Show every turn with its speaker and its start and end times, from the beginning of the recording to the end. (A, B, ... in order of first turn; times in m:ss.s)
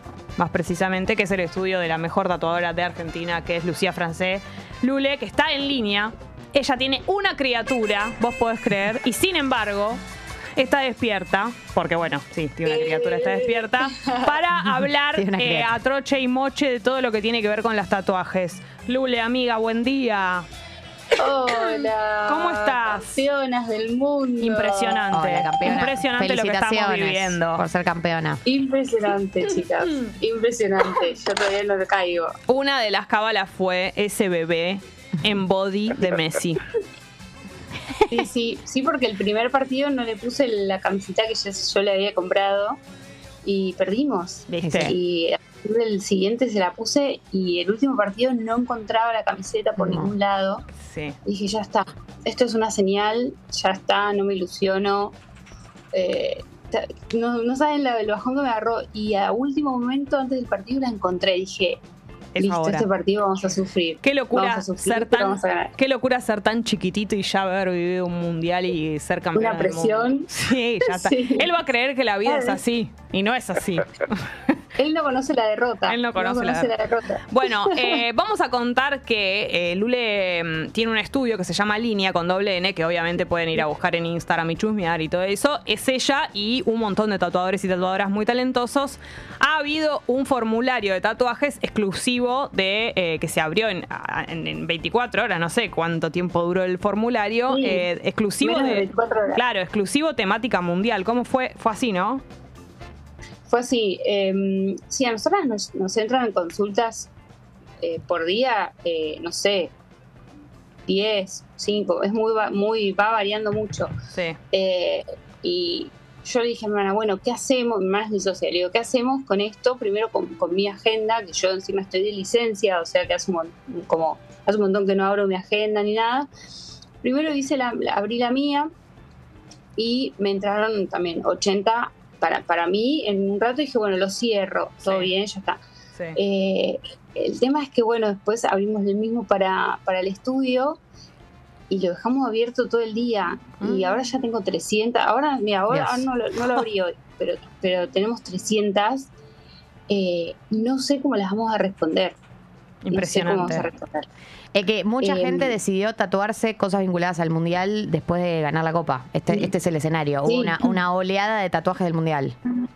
0:00.4-0:10.0 A
0:10.6-0:20.5 A
0:12.6-0:14.4 B
0:15.1-0:15.7 C
0:21.2-0:25.1 B
0:21.7-0:23.2 A
0:24.4-0:27.6 A
0:25.1-0:28.4 C
0:28.4-0:32.4 B
0:32.5-0:36.6 A
0:37.9-0:38.2 C
0:38.1-0:42.8 B
0:43.4-0:50.7 B
0:44.5-0:44.9 A
0:44.6-0:45.0 C
0:49.8-0:50.1 C
0:50.8-0:51.2 A
0:51.3-0:55.2 B
0:55.9-1:01.8 B
1:02.4-1:02.9 A
1:02.4-1:05.7 B
1:04.0-1:14.6 A
1:09.4-1:10.3 B
1:10.8-1:11.5 B
1:12.2-1:12.6 B
1:14.8-1:18.0 B
1:15.9-1:16.7 A
1:17.3-1:42.2 A
1:37.5-1:37.9 B
1:38.4-1:39.4 B
1:43.5-1:47.1 B
1:47.8-1:49.7 B
1:50.9-1:53.9 B
1:54.1-1:54.4 A
1:54.5-2:06.3 B
2:07.0-2:08.7 B
2:09.8-2:15.6 B
2:14.8-2:15.1 A
2:16.2-2:20.8 B
2:21.7-2:29.1 B
2:23.6-2:24.0 A
2:25.7-2:26.1 C
2:29.9-2:32.2 B
2:32.8-2:33.7 A
2:32.9-2:34.1 B
2:34.5-2:42.4 C
2:35.0-2:35.6 B
2:40.3-2:40.8 B